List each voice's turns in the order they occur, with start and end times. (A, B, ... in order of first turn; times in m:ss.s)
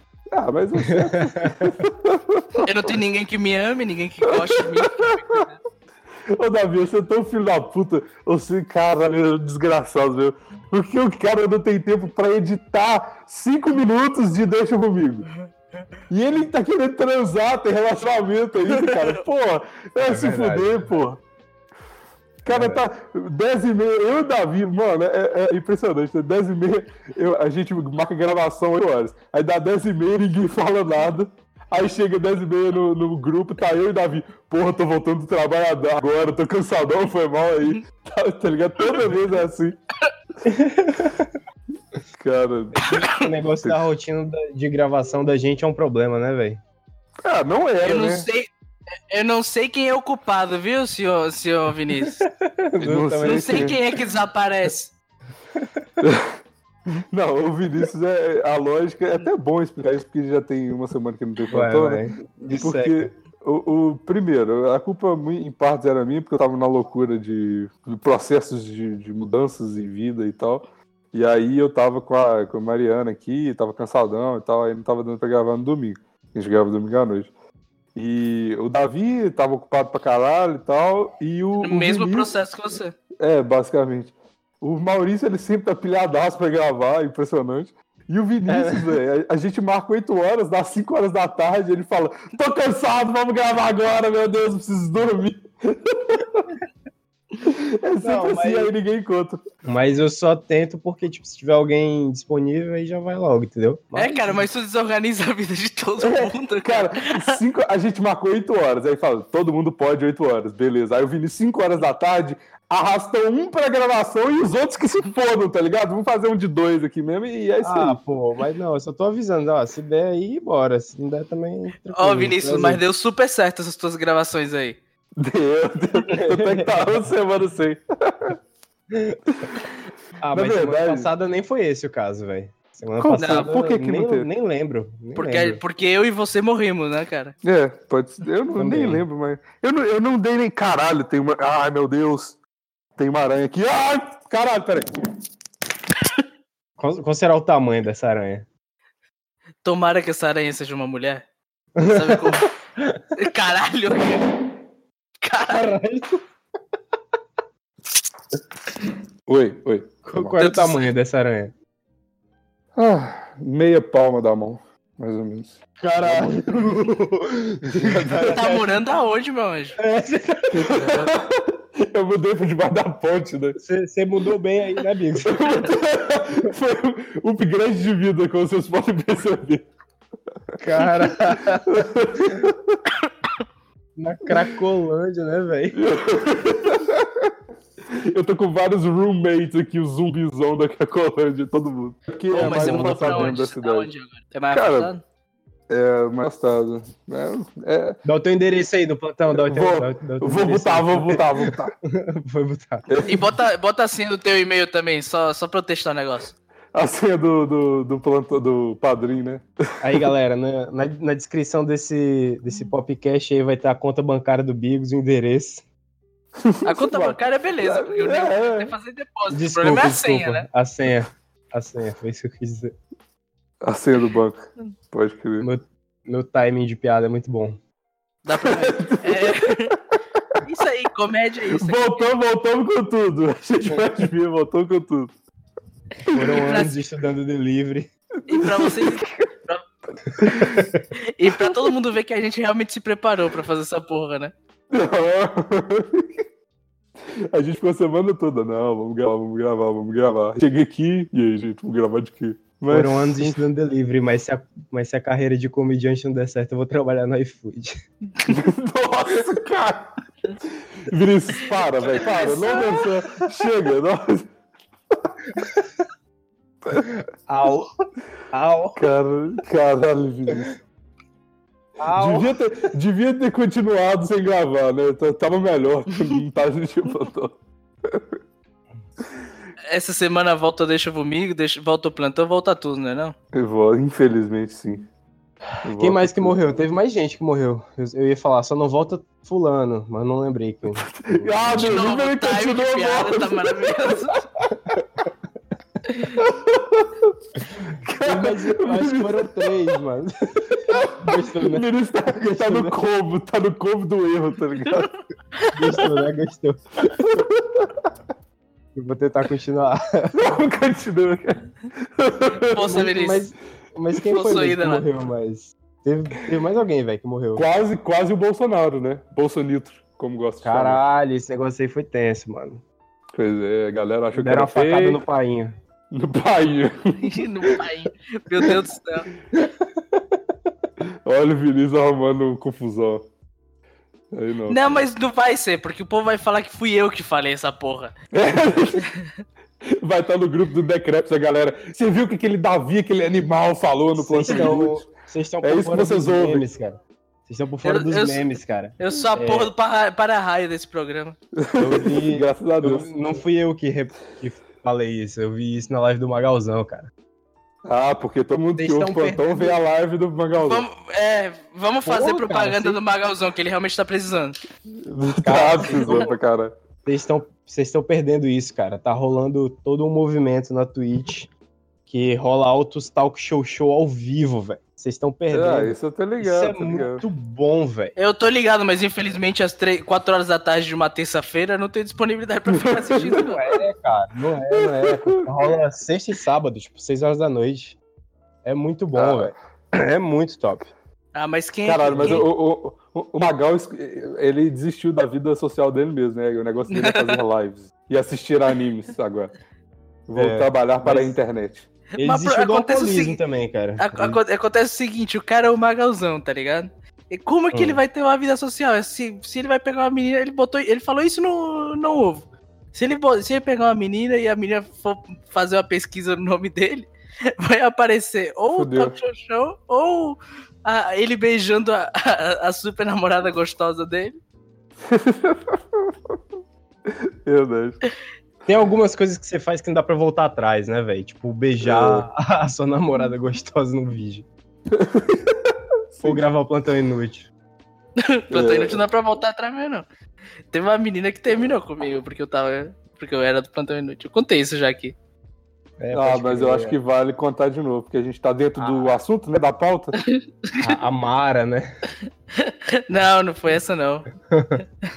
0:00.3-0:03.0 A
0:01.1-0:01.8 B
0:02.6-0:05.6 C
0:04.2-0:05.4 A
0:06.3-0:15.3 A
0:16.1-0:21.2 A
0:18.8-0:19.2 C
0:20.0-0:21.0 B
0:22.4-0:39.8 A
0:22.5-0:22.8 B
0:40.4-0:41.4 B
0:42.2-0:42.8 A
0:42.7-0:46.6 B
0:47.2-0:48.3 A
0:47.8-0:48.5 C
0:49.1-0:52.3 C
0:52.2-0:53.8 B
0:52.8-0:53.8 A
0:53.2-0:54.9 C
0:55.6-0:55.8 B
0:56.0-0:56.3 A
0:57.1-1:17.3 A
1:01.5-1:03.1 B
1:18.0-1:22.3 A
1:21.6-1:23.0 C
1:23.2-1:36.5 A
1:28.5-1:28.9 B
1:37.4-1:39.4 A
1:38.0-1:38.7 B
1:39.6-1:44.4 B
1:44.0-1:47.4 C
1:46.0-1:58.0 A
1:57.6-2:02.8 B
2:01.9-2:04.8 C
2:05.2-2:08.4 A
2:06.0-2:07.1 B
2:08.9-2:09.2 B
2:10.2-2:15.6 B
2:10.3-2:11.1 A
2:13.0-2:14.3 A
2:13.2-2:13.5 C
2:15.2-2:17.4 C
2:17.4-2:22.4 A
2:18.6-2:19.0 B
2:23.0-2:24.9 A
2:26.8-2:28.5 B
2:29.6-2:31.2 C
2:31.8-2:33.1 B
2:31.8-2:32.5 C
2:33.2-2:34.3 C
2:35.2-2:35.7 C
2:35.5-2:36.2 B
2:39.3-2:40.4 A
2:40.1-2:41.5 B
2:40.4-2:40.9 C
2:42.8-2:46.8 A
2:45.8-2:48.7 B
2:47.6-2:48.4 A
2:48.3-2:49.8 C
2:49.8-2:50.9 B
2:50.6-2:53.6 A
2:53.6-2:55.5 B
2:55.3-2:59.7 A
3:00.6-3:01.9 B
3:01.5-3:02.8 A
3:04.0-3:05.8 B
3:05.7-3:07.3 A
3:07.9-3:13.9 A
3:12.3-3:13.4 B
3:12.3-3:15.0 C
3:14.5-3:14.9 A
3:15.7-3:18.0 A
3:18.0-3:22.9 B
3:19.3-3:21.8 A
3:22.9-3:23.2 A
3:23.1-3:26.4 C
3:26.7-3:30.0 A
3:29.8-3:35.6 B
3:36.4-3:38.7 A
3:36.6-3:40.5 C
3:39.3-3:42.8 B
3:43.6-3:45.5 A
3:45.4-3:47.6 B
3:48.2-3:49.8 C
3:48.4-3:49.4 A
3:50.4-3:52.1 C
3:51.5-3:55.1 A
3:56.1-3:56.5 A
3:56.1-3:57.9 B
3:56.5-3:56.7 C
3:58.3-3:59.6 C
3:58.3-3:59.2 A
4:00.3-4:00.8 B
4:01.2-4:04.3 C
4:04.7-4:06.2 A
4:07.1-4:13.4 A
4:12.7-4:17.8 B
4:18.3-4:20.0 A
4:20.9-4:24.3 A
4:21.8-4:22.7 C
4:25.4-4:25.6 B
4:26.8-4:27.7 B
4:28.3-4:28.8 B
4:28.8-4:30.5 A
4:31.8-4:32.3 B
4:31.9-4:38.0 A
4:39.7-4:43.2 C
4:43.3-4:44.9 A
4:45.6-4:46.6 A
4:45.8-4:51.7 B
4:50.8-4:54.0 A
4:51.6-4:54.2 C
4:55.9-4:56.2 C
4:56.2-4:57.1 A
4:57.8-4:59.6 A
4:58.0-5:01.7 B
5:00.7-5:04.9 A
5:02.3-5:02.8 B
5:05.5-5:07.0 B
5:07.0-5:07.8 A
5:08.8-5:10.2 B
5:10.1-5:12.7 A
5:12.5-5:13.3 C
5:12.6-5:17.4 B
5:14.1-5:14.8 C
5:17.4-5:20.8 A
5:20.4-5:22.6 B
5:23.1-5:25.0 A
5:24.1-5:25.6 B
5:25.9-5:27.1 A
5:27.0-5:29.1 C
5:31.0-5:33.1 A
5:34.1-5:34.8 A
5:34.5-5:37.9 C
5:38.1-5:38.9 A
5:39.7-5:44.9 A
5:43.9-5:49.5 B
5:44.3-5:44.5 C
5:45.4-5:46.4 A
5:47.6-5:48.2 C
5:48.8-5:51.2 C
5:51.4-5:52.9 A
5:51.6-5:56.9 B
5:57.6-6:00.7 A
5:58.6-5:59.6 B
6:00.4-6:04.4 C
6:01.8-6:02.8 B
6:04.8-6:06.6 A
6:05.1-6:06.1 B
6:06.8-6:11.3 B
6:11.9-6:17.9 B
6:15.3-6:17.0 A
6:18.0-6:23.4 C
6:22.5-6:23.4 A
6:23.1-6:27.8 B
6:24.5-6:25.2 A
6:28.4-6:30.7 B
6:29.0-6:29.3 A
6:31.1-6:32.3 C
6:31.6-6:39.3 A
6:31.9-6:32.2 B
6:36.7-6:37.2 C
6:40.1-6:41.7 A
6:40.2-6:41.2 B
6:42.0-6:43.2 C
6:42.0-6:44.2 B
6:43.8-7:04.2 C
6:47.5-6:47.8 B
6:58.5-6:59.0 A
7:04.8-7:05.9 A
7:06.9-7:07.8 A
7:08.5-7:14.3 B
7:11.6-7:12.1 A
7:14.7-7:16.2 A
7:16.0-7:17.3 B
7:18.0-7:19.8 C
7:18.3-7:18.8 A
7:20.5-7:25.0 C
7:25.8-7:26.8 B
7:25.9-7:30.0 A
7:28.6-7:28.9 B
7:30.1-7:30.7 C
7:30.6-7:31.7 B
7:32.4-7:34.1 C
7:34.3-7:34.6 B